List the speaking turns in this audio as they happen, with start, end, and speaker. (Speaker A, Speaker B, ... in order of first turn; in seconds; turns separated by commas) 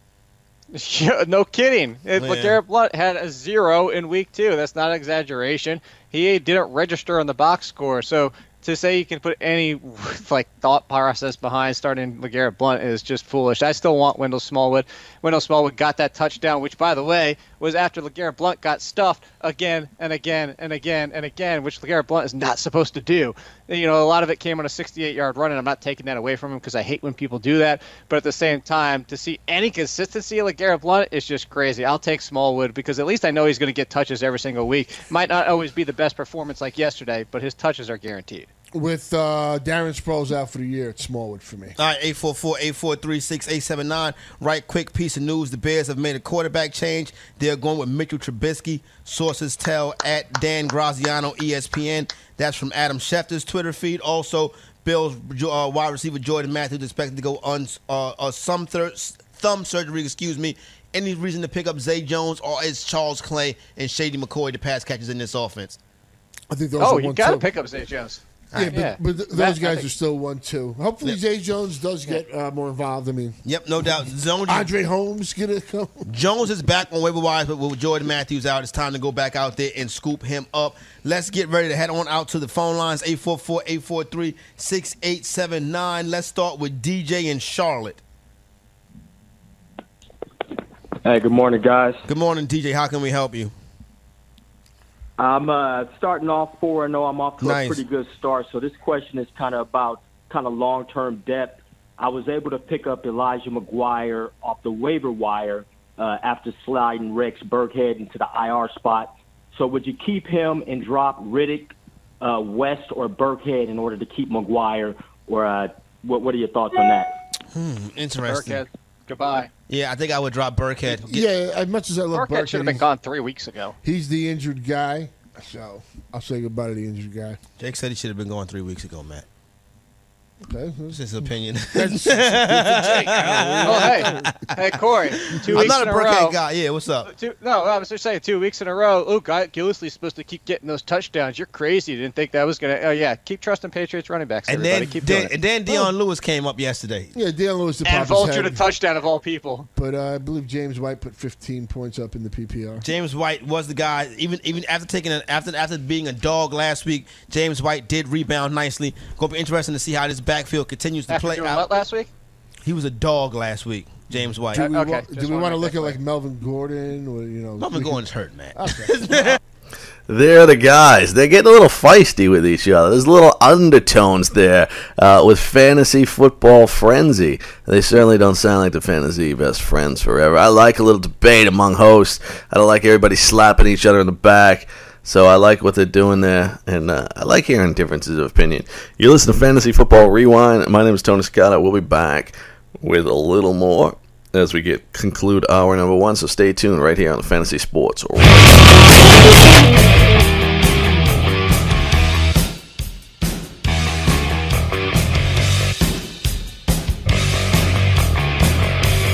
Speaker A: 0.7-38.5, Speaker B: 2.2-2.6, Speaker C: 38.7-41.8, Speaker B: 41.8-65.8, Speaker C: 66.5-67.5, Speaker A: 66.8-68.2, Speaker B: 68.5-68.9, Speaker C: 68.5-73.4, Speaker A: 68.7-69.9, Speaker B: 73.4-74.7, Speaker C: 74.5-76.1, Speaker B: 76.1-88.0, Speaker D: 91.0-92.0, Speaker B: 92.1-93.5, Speaker D: 95.2-117.1, Speaker B: 97.4-97.8, Speaker B: 117.5-118.6, Speaker A: 118.3-119.5, Speaker B: 119.7-121.2, Speaker C: 121.1-122.8, Speaker A: 122.1-123.8, Speaker C: 123.8-127.4, Speaker B: 127.6-129.3, Speaker C: 130.5-131.0, Speaker B: 130.9-134.6, Speaker C: 131.7-134.3, Speaker A: 133.6-136.4, Speaker C: 135.3-135.7, Speaker B: 135.3-137.1, Speaker A: 137.1-145.3, Speaker B: 144.5-147.1, Speaker C: 147.2-148.7, Speaker A: 147.8-149.7, Speaker C: 149.8-152.8, Speaker B: 152.8-161.7, Speaker A: 161.1-162.1, Speaker B: 162.6-164.7, Speaker C: 164.5-168.0, Speaker A: 164.6-166.0, Speaker B: 167.6-169.4, Speaker C: 168.6-169.0, Speaker E: 170.1-198.9